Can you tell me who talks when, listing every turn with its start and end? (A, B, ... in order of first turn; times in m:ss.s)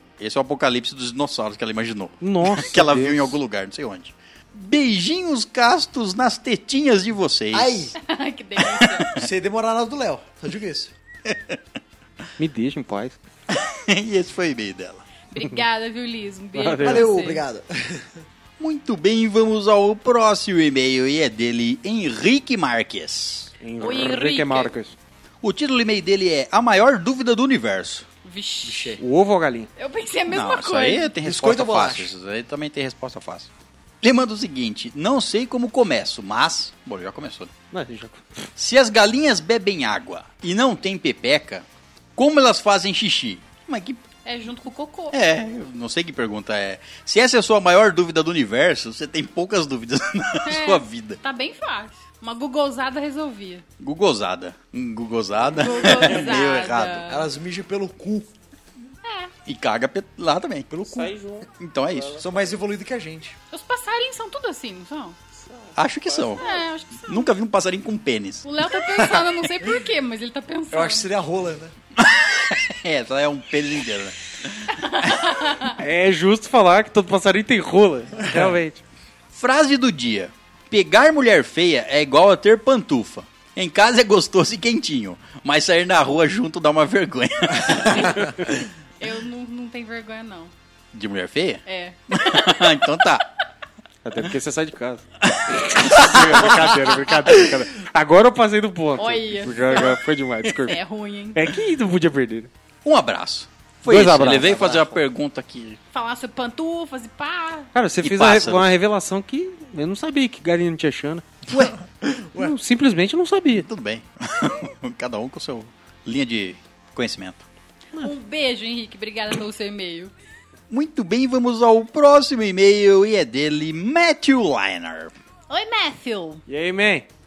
0:00.2-0:07.9 A
0:02.2-0:03.4 B
0:07.5-0:07.9 C
0:08.0-0:09.1 D
0:08.6-0:09.2 A
0:09.1-0:10.9 C
0:11.3-0:11.6 A
0:12.4-0:13.2 B
0:13.5-0:15.0 A
0:15.3-0:17.4 D
0:16.6-0:17.1 B
0:16.8-0:18.2 C
0:18.6-0:23.5 A
0:23.6-0:25.0 B
0:23.8-0:24.7 D
0:25.4-0:28.1 A
0:28.2-0:29.0 D
0:28.6-0:29.0 C
0:29.0-0:29.7 B
0:29.8-0:31.1 D
0:30.3-0:33.5 A
0:31.2-0:32.1 C
0:34.0-0:37.5 A
0:37.7-0:38.5 B
0:38.6-0:41.6 A
0:42.2-0:44.0 A
0:44.2-0:45.2 D
0:45.1-0:51.2 A
0:50.4-0:53.6 D
0:53.8-0:57.1 A
0:55.5-0:57.3 D
0:57.1-0:58.3 C
0:59.0-0:59.3 D
0:59.5-1:00.9 A
1:00.7-1:01.1 C
1:00.8-1:02.5 E
1:01.6-1:02.2 A
1:02.2-1:03.4 C
1:03.5-1:05.2 D
1:05.4-1:06.6 E
1:05.8-1:06.5 A
1:06.4-1:07.3 D
1:07.1-1:08.5 A
1:08.4-1:11.1 D
1:10.7-1:11.7 C
1:12.0-1:15.3 A
1:14.7-1:15.8 D
1:15.8-1:18.8 B
1:19.3-1:28.5 A
1:27.8-1:30.5 D
1:30.9-1:33.3 A
1:31.7-1:32.9 D
1:34.0-1:40.8 B
1:35.3-1:36.6 A
1:39.0-1:41.4 D
1:41.3-1:42.5 B
1:42.8-1:45.8 A
1:43.9-1:44.9 B
1:45.9-1:47.7 D
1:47.7-1:51.3 B
1:48.0-1:48.7 A
1:51.5-1:52.6 C
1:52.4-1:53.7 B
1:53.6-1:57.4 A
1:58.0-2:00.1 D
2:00.7-2:05.1 A
2:05.5-2:06.4 D
2:06.5-2:07.1 B